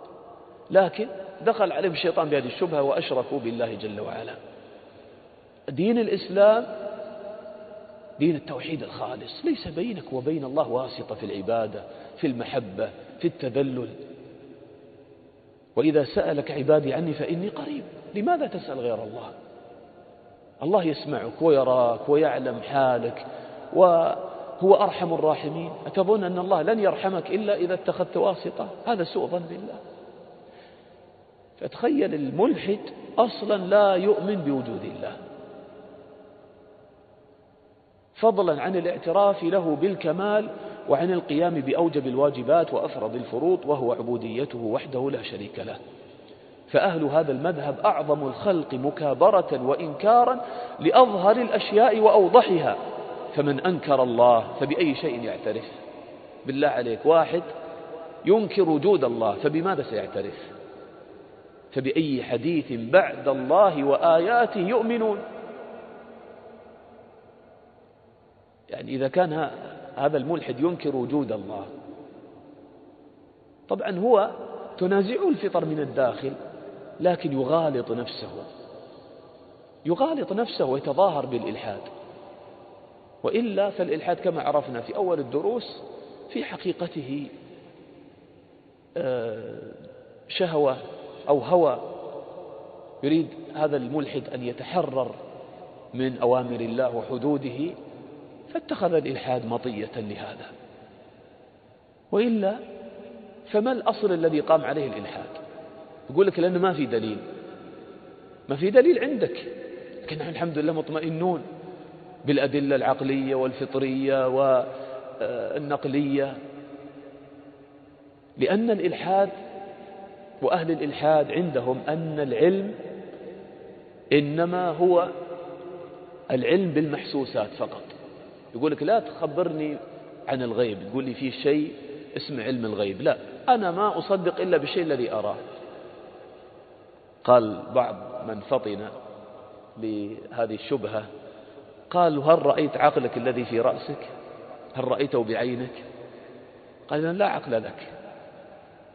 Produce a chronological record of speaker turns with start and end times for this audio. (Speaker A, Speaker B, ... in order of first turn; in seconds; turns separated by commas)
Speaker A: 0.7-4.4, Speaker A: 5.7-6.7, Speaker A: 8.2-14.0, Speaker A: 15.8-19.3, Speaker A: 20.6-29.8, Speaker A: 31.6-35.2, Speaker A: 38.1-45.8, Speaker A: 46.7-52.8, Speaker A: 53.3-55.8, Speaker A: 56.5-57.5, Speaker A: 58.2-60.5, Speaker A: 61.7-65.2, Speaker A: 68.7-71.7, Speaker A: 73.7-76.4, Speaker A: 77.0-78.5, Speaker A: 79.9-81.9, Speaker A: 83.2-87.3, Speaker A: 89.0-91.9, Speaker A: 93.0-95.2, Speaker A: 95.9-97.8, Speaker A: 98.5-100.5, Speaker A: 102.1-102.6, Speaker A: 103.5-105.4, Speaker A: 106.1-107.2, Speaker A: 108.5-109.5, Speaker A: 110.0-111.5, Speaker A: 112.2-116.4, Speaker A: 118.4-119.3, Speaker A: 120.4-122.8, Speaker A: 124.1-125.1, Speaker A: 126.3-127.9, Speaker A: 128.5-135.4, Speaker A: 137.2-138.9, Speaker A: 139.8-141.1, Speaker A: 141.9-144.1, Speaker A: 144.7-145.8, Speaker A: 146.9-147.9